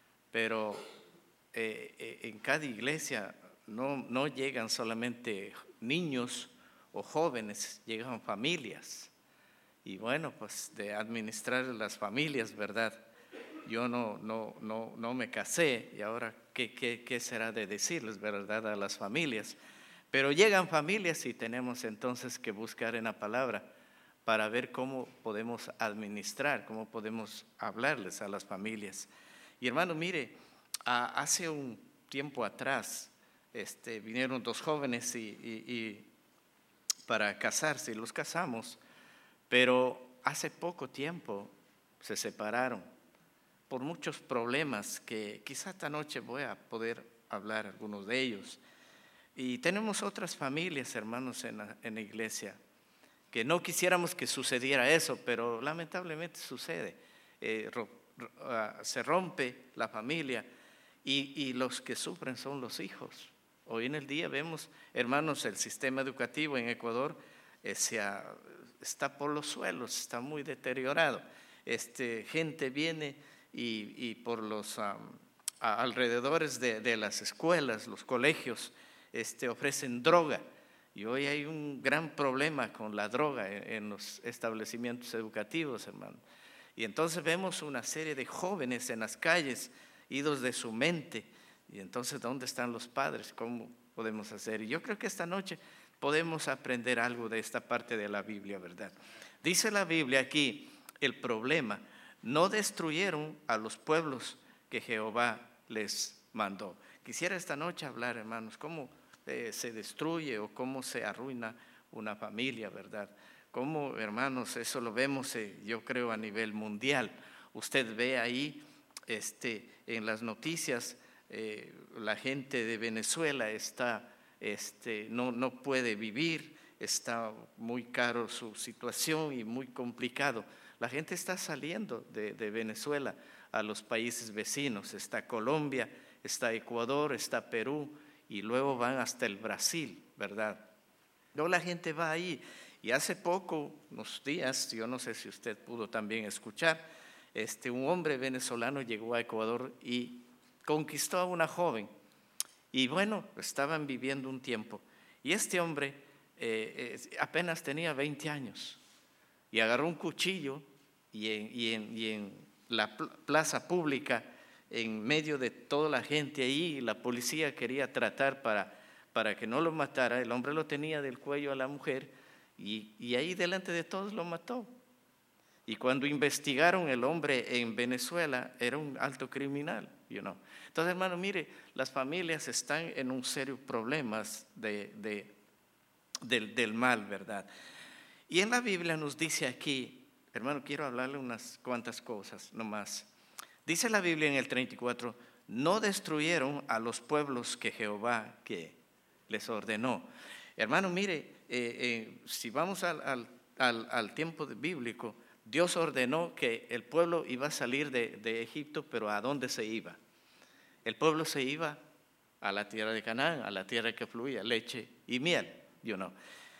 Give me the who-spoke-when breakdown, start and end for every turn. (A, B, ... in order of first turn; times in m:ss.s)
0:00.3-0:00.8 A
0:01.5-0:09.1 A
0:09.8-0:13.1 A
0:13.6-0:19.6 A
0:20.1-0:23.7 A
0:24.2-0:36.1 A
0:37.1-0:38.8 A
0:39.5-0:42.8 A
0:43.7-0:48.6 A
0:49.3-0:52.6 A
0:53.3-1:00.4 A
1:01.0-1:26.2 A
1:26.8-2:20.7 A
2:21.3-2:31.9 A
2:32.7-2:38.8 A
2:39.5-2:54.8 A
2:55.6-3:05.3 A
3:06.2-3:07.5 A
3:08.3-3:13.1 A
3:13.6-3:30.0 A
3:30.8-3:31.8 A
3:32.4-3:36.1 A